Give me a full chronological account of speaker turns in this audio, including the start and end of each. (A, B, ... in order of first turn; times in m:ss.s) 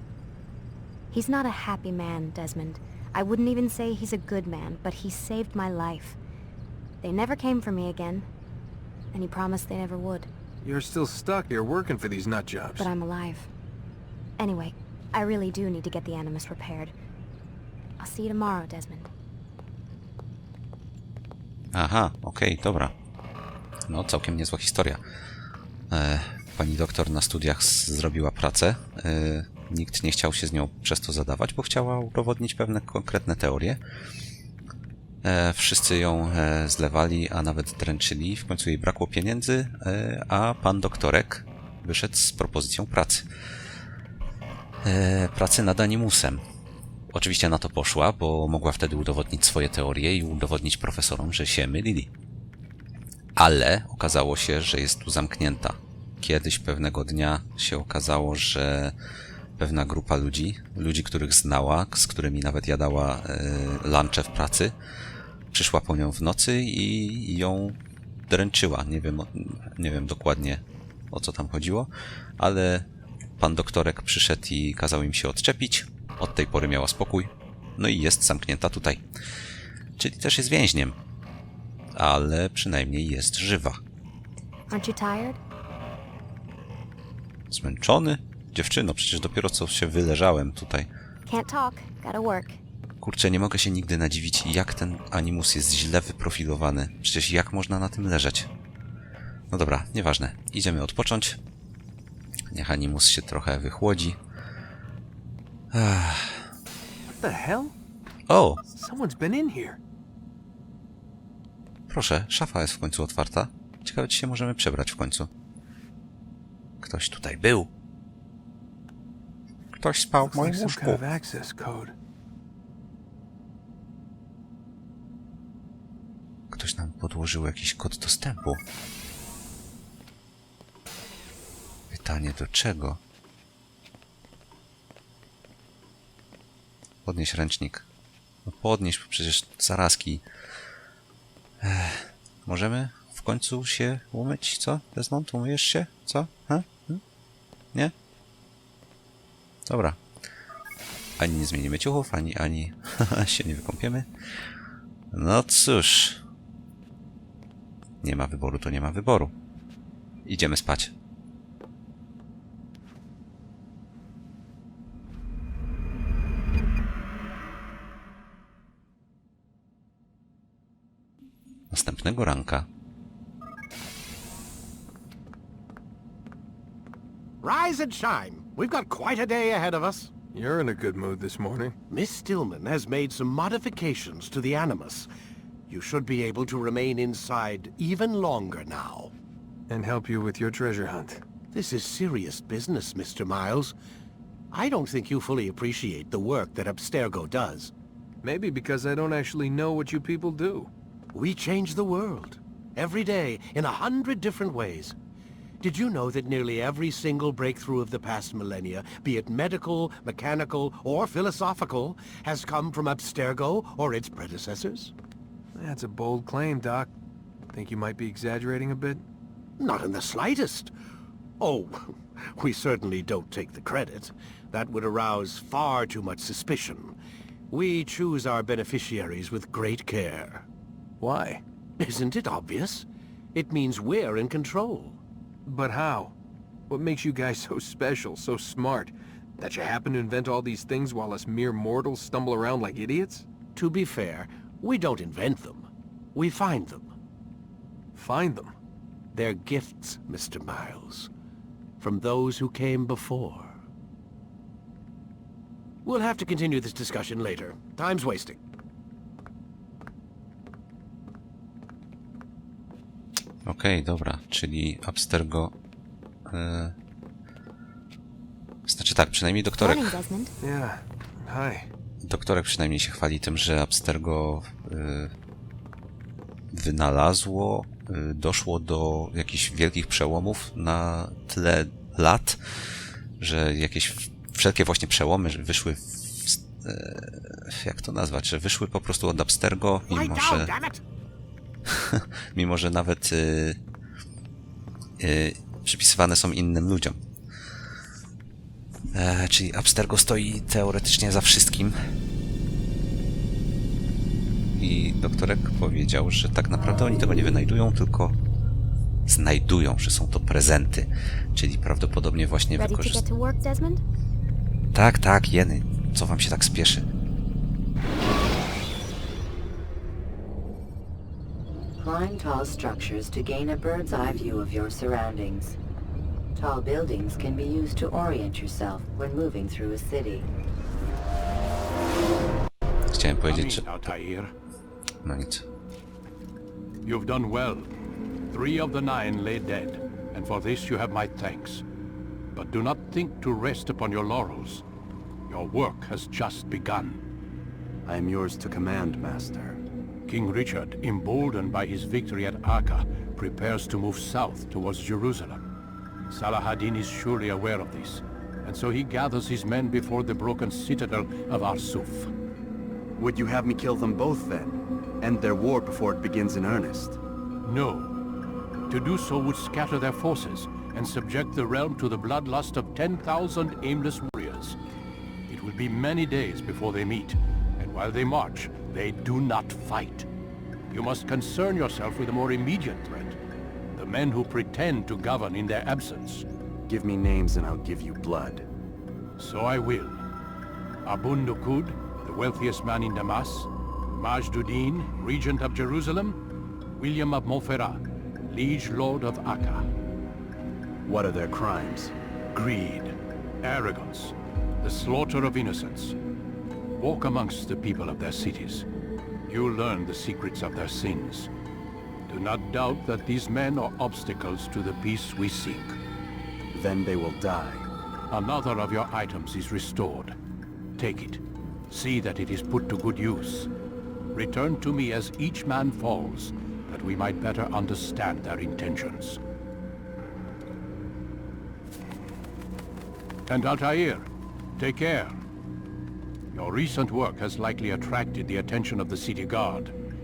0:01.1-0:06.2 A
0:07.0-0:08.3 A
0:09.1-0:10.3 A
0:10.6-0:12.9 B
0:12.8-0:13.5 A
0:14.4-0:16.9 A
0:18.0-0:19.1 A
0:21.7-0:22.9 C
0:23.9-0:25.0 C
0:25.9-0:33.8 C
0:35.2-0:43.3 C
0:44.8-0:46.4 C
0:47.1-0:52.1 C
0:53.4-0:58.9 C
0:59.6-1:04.8 C
1:05.5-1:12.9 C
1:13.4-1:19.0 C
1:20.0-1:21.0 C
1:22.0-1:23.8 C
1:24.7-1:25.4 A
1:27.5-1:30.9 C
1:31.2-1:32.6 A
1:33.0-1:38.5 C
1:39.5-1:41.4 C
1:42.5-1:44.2 C
1:45.7-1:46.5 C
1:47.1-1:47.8 B
1:48.3-1:48.6 C
1:48.6-1:49.8 B
1:51.9-1:55.3 C
1:56.8-1:57.7 C
1:59.7-2:01.0 C
2:00.2-2:01.9 B
2:06.5-2:08.6 C
2:11.9-2:13.0 C
2:17.0-2:17.8 C
2:18.5-2:20.2 C
2:21.6-2:27.0 C
2:29.7-2:30.0 C
2:31.2-2:34.1 C
2:35.1-2:36.2 C
2:38.0-2:39.3 C
2:40.2-2:40.9 C
2:51.7-2:52.6 C
2:57.4-3:00.1 D
3:00.3-3:01.8 B
3:01.9-3:05.1 D
3:05.7-3:09.1 D
3:09.7-3:11.2 B
3:11.5-3:13.8 D
3:14.5-3:17.7 D
3:18.2-3:20.7 B
3:21.1-3:25.0 D
3:25.6-3:34.9 D
3:35.6-3:36.9 B
3:37.5-3:39.0 B
3:39.6-3:40.7 D
3:41.4-3:47.0 D
3:47.5-3:50.5 D
3:51.0-3:51.4 B
3:51.8-3:55.0 D
3:55.5-3:56.2 B
3:56.7-4:03.3 B
4:03.6-4:06.9 D
4:07.9-4:08.5 B
4:09.1-4:11.1 D
4:11.8-4:13.6 D
4:15.8-4:18.4 D
4:23.5-4:25.5 C
4:26.3-4:26.8 C
4:28.7-4:29.9 C
4:29.6-4:30.3 A
4:30.4-4:31.7 B
4:32.0-4:35.1 C
4:36.5-4:42.6 C
4:43.2-4:50.5 C
4:49.9-4:50.8 D
4:51.7-4:53.6 C
4:55.0-4:57.0 C
4:58.9-5:01.8 C
5:04.6-5:08.2 C
5:09.1-5:13.0 C
5:12.6-5:13.8 A
5:14.7-5:16.8 C
5:21.8-5:25.6 E
5:26.4-5:30.3 E
5:32.9-5:33.7 C
5:33.3-5:34.3 F
5:35.0-5:35.4 C
5:36.8-5:37.7 F
5:38.3-5:41.6 F
5:42.4-5:44.6 F
5:45.3-5:47.0 F
5:47.9-5:49.6 G
5:50.1-5:55.5 F
5:56.1-6:02.1 F
6:03.0-6:07.0 G
6:07.4-6:08.0 F
6:08.7-6:14.6 F
6:15.3-6:20.1 F
6:20.7-6:23.2 F
6:23.8-6:26.3 F
6:26.7-6:28.5 G
6:29.2-6:30.0 F
6:30.8-6:36.2 F
6:36.8-6:39.7 F
6:40.9-6:41.9 G
6:42.3-6:45.9 F
6:46.8-6:48.6 F
6:49.3-6:51.3 F
6:52.1-6:55.8 F
6:56.5-6:57.7 G
6:58.1-7:00.2 F
7:00.8-7:03.5 F
7:04.1-7:09.2 F
7:13.3-7:15.2 F
7:16.3-7:19.7 F